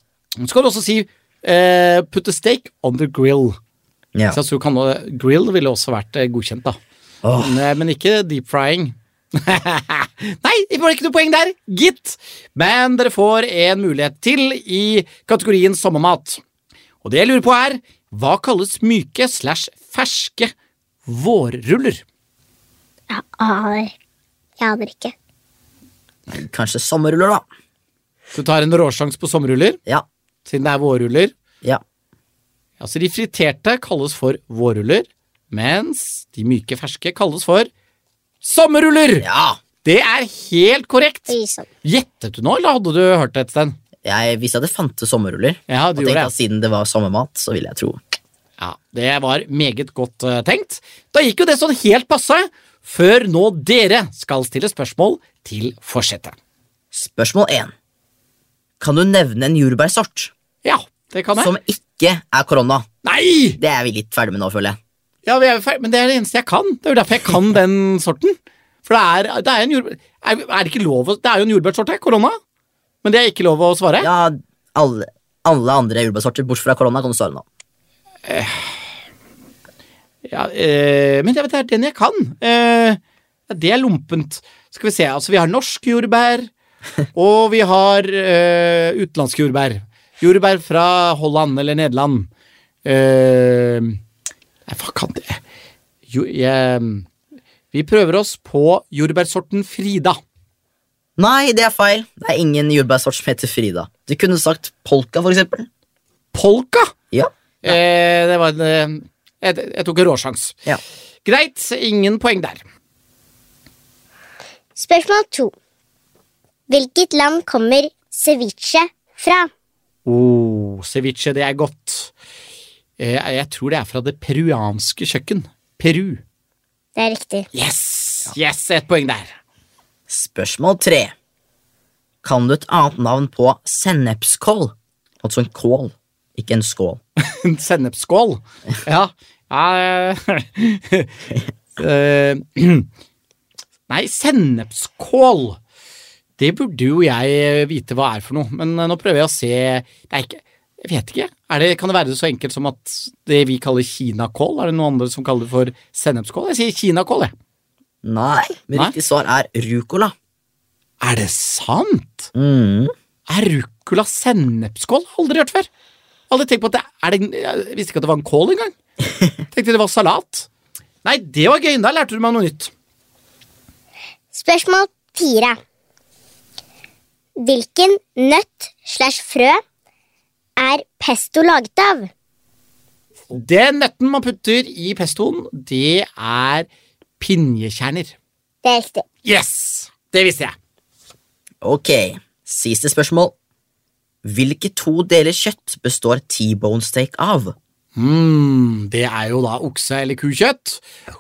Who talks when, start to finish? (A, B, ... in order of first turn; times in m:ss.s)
0:00.4-0:03.6 A
0:04.3-0:06.8 A
0:07.2-0:07.6 B
0:07.4-0:16.4 A
0:17.0-0:20.5 A
0:21.0-0:22.0 A
0:23.1-0:23.9 C
0:24.6-0:25.1 C
0:26.3-0:27.4 B
0:28.3-0:29.8 A
0:30.4-0:31.3 A
0:32.8-0:37.7 A
0:38.4-0:39.2 A
0:39.2-0:39.6 B
0:39.8-0:43.8 A
0:41.3-0:41.7 C
0:44.0-0:48.0 B
0:45.7-0:46.3 A
0:48.6-0:56.4 A
0:56.9-0:57.7 B
0:58.8-1:00.3 B
1:00.6-1:01.5 A
1:01.4-1:02.8 B
1:03.0-1:03.6 A
1:03.6-1:04.8 B
1:05.2-1:12.4 A
1:13.0-1:14.1 A
1:14.0-1:17.4 B
1:18.2-1:18.8 A
1:20.2-1:26.5 A
1:27.1-1:32.3 A
1:32.8-1:34.0 A
1:34.7-1:35.4 A
1:36.1-1:37.0 A
1:37.7-1:40.2 A
1:41.2-1:45.7 B
1:46.3-1:46.9 A
1:47.1-1:47.8 B
1:47.6-1:50.6 A
1:51.2-1:52.6 A
1:54.8-1:55.5 C
1:56.7-1:59.5 C
2:00.0-2:02.1 A
2:03.0-2:06.2 A
2:07.0-2:07.5 C
2:07.5-2:09.3 A
2:10.1-2:11.1 B
2:12.2-2:17.0 B
2:17.2-2:21.1 A
2:21.8-2:22.9 A
2:23.9-2:25.6 A
2:26.4-2:37.3 A
2:38.0-2:40.1 B
2:41.0-2:42.3 A
2:42.3-2:42.9 B
2:43.3-2:45.7 A
2:46.3-2:48.7 A
2:49.5-2:50.5 A
2:51.0-2:52.7 A
2:54.3-2:55.6 C
2:57.4-2:59.6 C
3:00.6-3:02.1 C
3:03.3-3:06.7 A
3:07.2-3:08.2 A
3:08.6-3:09.0 C
3:09.2-3:10.5 A
3:11.6-3:13.3 B
3:14.2-3:17.6 B
3:18.0-3:20.8 A